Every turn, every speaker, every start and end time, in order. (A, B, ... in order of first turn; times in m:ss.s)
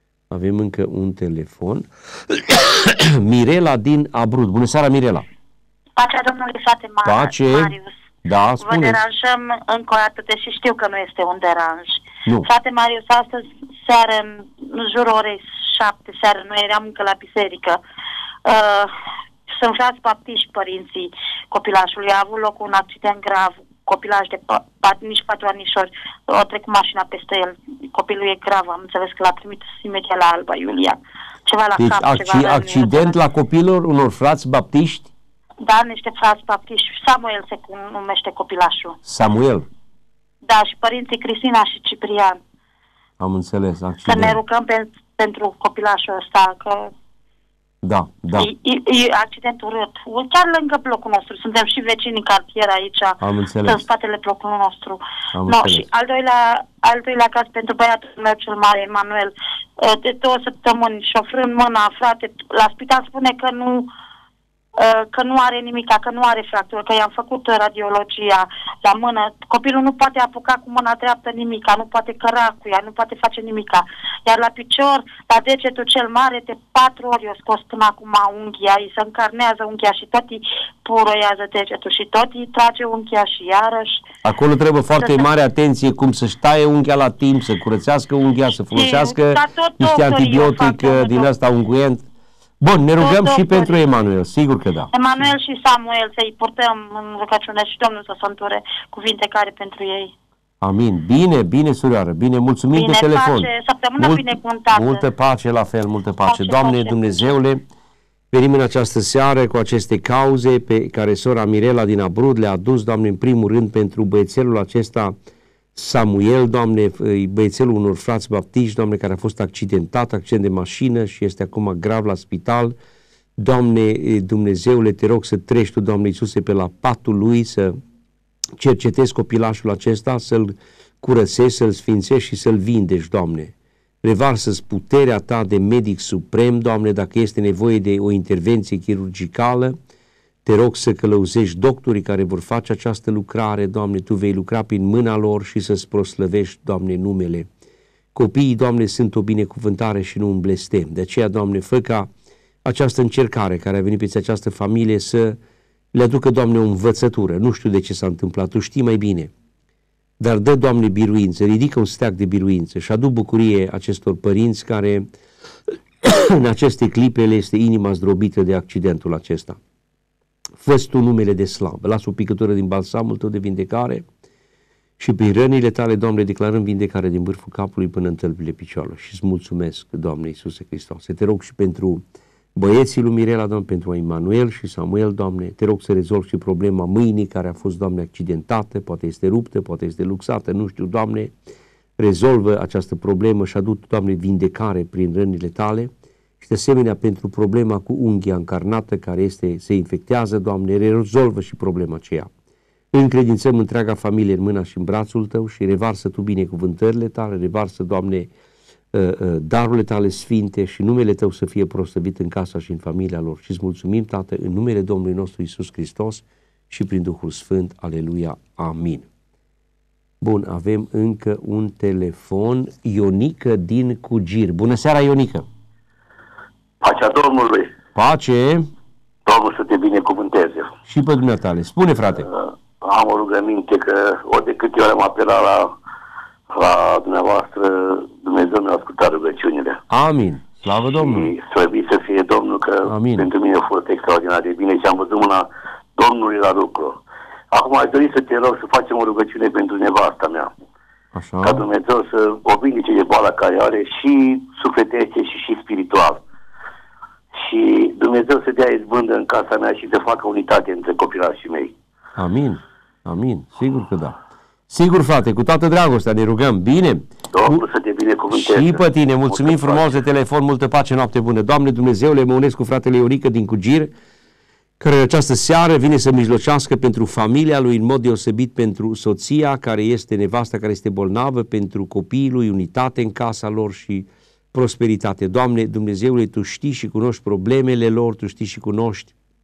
0:00.3-0:05.2 A
0:06.0-0:07.9 B
0:07.0-0:07.7 A
0:08.2-0:09.0 A
0:08.6-0:17.8 B
0:18.4-0:18.9 B
0:19.5-0:33.2 B
0:31.8-0:35.1 A
0:35.6-0:39.0 B
0:39.0-0:39.6 A
0:40.4-0:42.4 B
0:43.2-0:44.4 A
0:44.1-0:46.9 B
0:47.8-0:48.5 A
0:48.4-1:03.9 B
0:53.2-0:53.8 A
0:55.3-0:55.9 A
1:04.8-1:24.0 B
1:24.2-1:32.0 A
1:28.7-1:31.3 B
1:32.6-1:34.9 A
1:33.0-1:33.7 B
1:34.9-1:40.1 B
1:40.6-1:47.6 A
1:42.7-1:45.0 B
1:46.2-1:47.3 B
1:48.3-1:55.1 A
1:55.7-2:02.7 A
2:03.4-2:07.7 A
2:08.6-2:19.7 A
2:20.4-2:27.5 A
2:28.1-2:32.1 A
2:32.6-2:35.4 A
2:35.9-2:39.3 A
2:40.2-2:45.1 A
2:46.0-2:49.6 A
2:50.6-2:54.0 A
2:55.0-3:02.0 A
3:02.5-3:11.3 A
3:12.0-3:22.3 A
3:22.9-3:28.3 A
3:28.9-3:39.1 A
3:40.2-3:45.4 A
3:46.8-3:47.7 C
3:47.9-3:48.7 A
3:49.2-3:50.7 C
3:50.9-3:52.3 A
3:52.3-3:55.7 C
3:56.5-3:59.8 C
3:59.9-4:01.3 A
4:01.0-4:07.0 C
4:02.8-4:03.3 A
4:07.5-4:10.5 C
4:11.1-4:11.6 A
4:11.4-4:16.2 C
4:17.4-4:21.7 C
4:22.2-4:27.6 A
4:27.3-4:30.0 C
4:28.3-4:33.9 A
4:34.8-4:49.1 A